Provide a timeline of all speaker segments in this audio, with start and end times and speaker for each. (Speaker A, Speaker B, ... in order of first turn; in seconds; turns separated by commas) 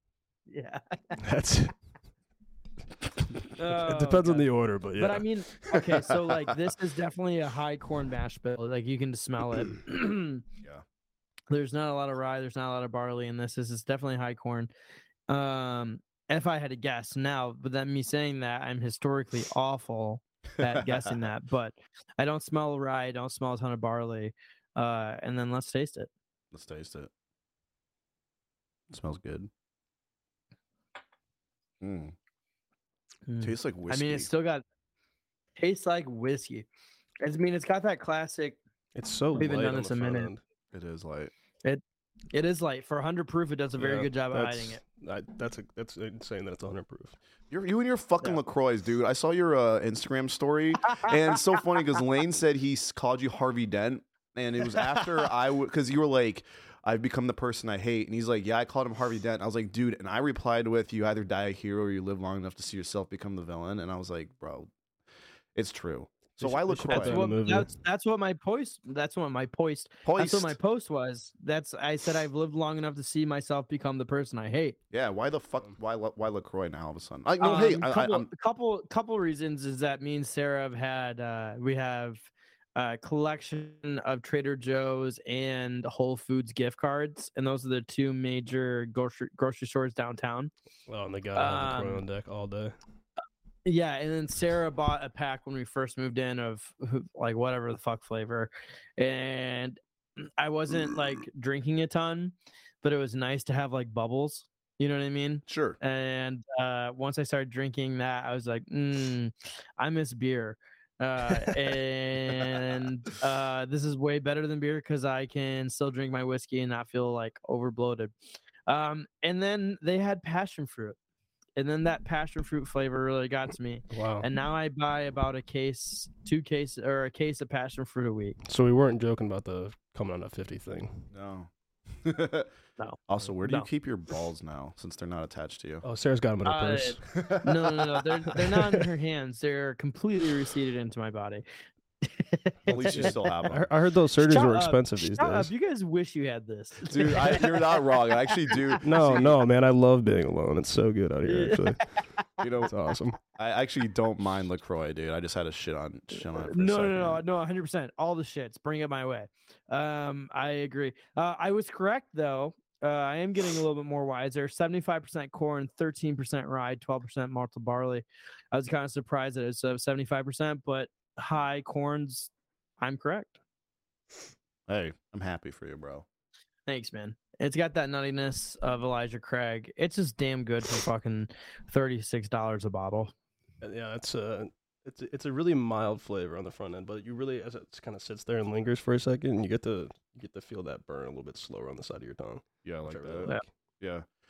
Speaker A: 0.5-1.2, Speaker B: 1.2-1.7, Speaker A: 3.5-10.4, Speaker B: 3.7-5.2, Speaker C: 5.7-6.1, Speaker A: 11.5-14.7, Speaker A: 15.3-26.1, Speaker C: 20.6-21.1, Speaker C: 26.5-27.1, Speaker C: 28.9-29.5, Speaker C: 31.8-32.1, Speaker A: 33.3-34.6, Speaker C: 33.4-34.3, Speaker A: 35.6-36.6, Speaker A: 37.2-38.6, Speaker B: 38.9-40.4, Speaker A: 39.3-40.3, Speaker C: 40.7-41.3, Speaker A: 41.6-44.8, Speaker B: 43.8-47.1, Speaker C: 47.5-64.7, Speaker C: 65.5-67.2, Speaker B: 66.4-67.7, Speaker A: 66.9-74.8, Speaker C: 70.0-70.6, Speaker C: 74.9-78.3, Speaker A: 77.4-90.5, Speaker B: 90.9-92.7, Speaker A: 91.3-92.0, Speaker A: 93.6-118.1, Speaker C: 105.5-105.8, Speaker A: 118.7-121.0, Speaker A: 121.6-128.4, Speaker B: 123.9-124.3, Speaker B: 128.4-131.1, Speaker C: 131.1-131.5, Speaker C: 132.0-132.5, Speaker A: 132.8-133.7, Speaker C: 133.1-135.8, Speaker B: 135.8-137.0, Speaker A: 136.4-141.4, Speaker C: 137.1-138.0, Speaker A: 142.0-143.3, Speaker C: 142.7-143.7, Speaker B: 142.8-145.5, Speaker A: 144.2-147.8, Speaker C: 146.8-149.3, Speaker B: 148.8-151.8, Speaker A: 151.2-151.8, Speaker C: 152.4-152.7, Speaker B: 152.7-153.2, Speaker C: 153.3-157.2, Speaker A: 156.3-173.3, Speaker C: 174.7-176.0, Speaker A: 176.7-183.1, Speaker B: 183.6-193.4, Speaker C: 192.6-194.1